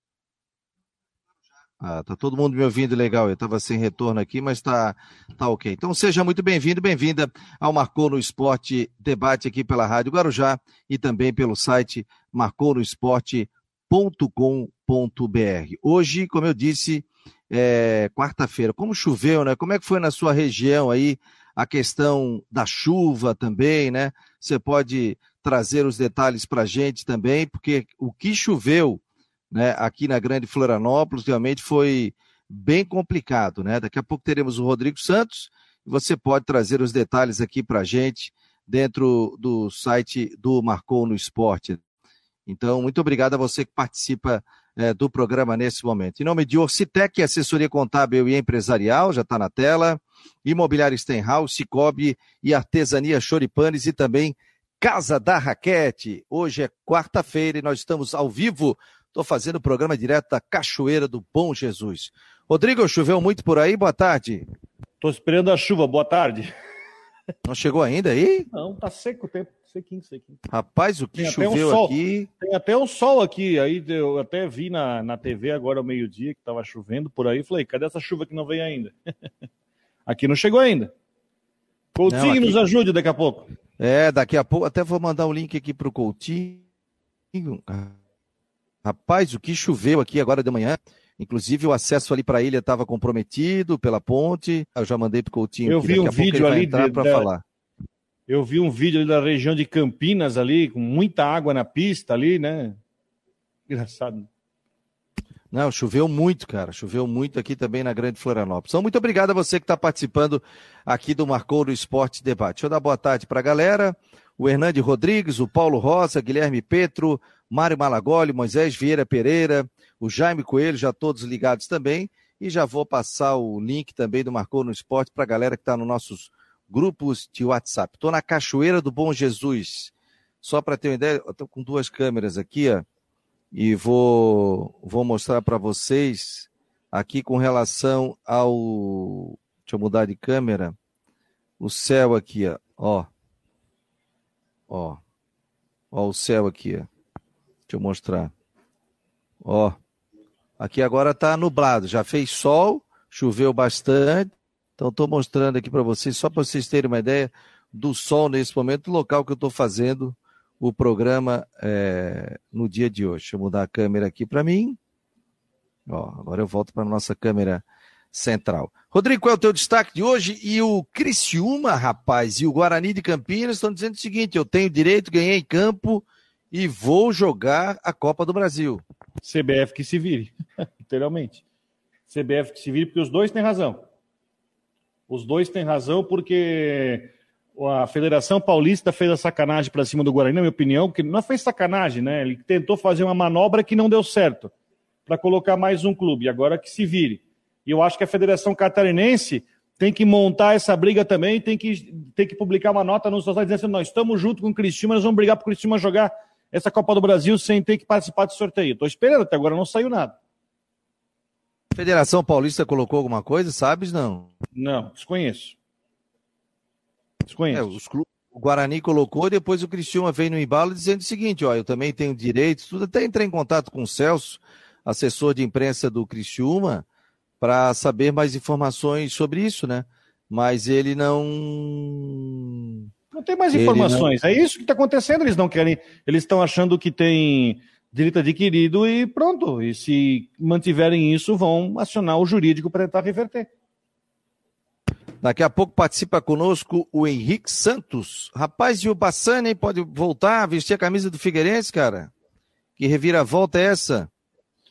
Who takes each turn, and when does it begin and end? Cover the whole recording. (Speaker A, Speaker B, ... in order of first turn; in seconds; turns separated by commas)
Speaker A: 1.8-41.8, Speaker A: 42.5-64.5, Speaker B: 65.0-66.5, Speaker A: 67.4-68.5, Speaker B: 68.5-70.4, Speaker A: 70.5-72.3, Speaker B: 71.2-78.9, Speaker B: 80.0-80.9, Speaker B: 82.0-83.5, Speaker A: 82.1-82.6, Speaker A: 83.8-86.6, Speaker A: 87.3-87.9, Speaker A: 88.8-97.4, Speaker B: 95.7-97.3, Speaker B: 98.3-102.8, Speaker B: 103.7-104.3, Speaker A: 105.5-129.9, Speaker A: 130.4-132.8, Speaker A: 133.5-140.7, Speaker A: 141.6-143.1, Speaker A: 144.7-145.0, Speaker A: 145.9-146.9, Speaker A: 147.7-148.3, Speaker A: 149.4-149.8, Speaker A: 150.6-164.8, Speaker A: 165.9-178.8, Speaker B: 179.2-181.4, Speaker B: 182.1-183.8, Speaker B: 185.1-194.5, Speaker B: 195.1-210.1, Speaker A: 211.7-214.3, Speaker B: 214.5-215.5, Speaker B: 217.3-217.7, Speaker A: 217.5-226.8, Speaker A: 227.4-232.4, Speaker B: 233.1-243.5, Speaker A: 233.5-234.1, Speaker A: 245.2-252.1, Speaker A: 252.8-254.1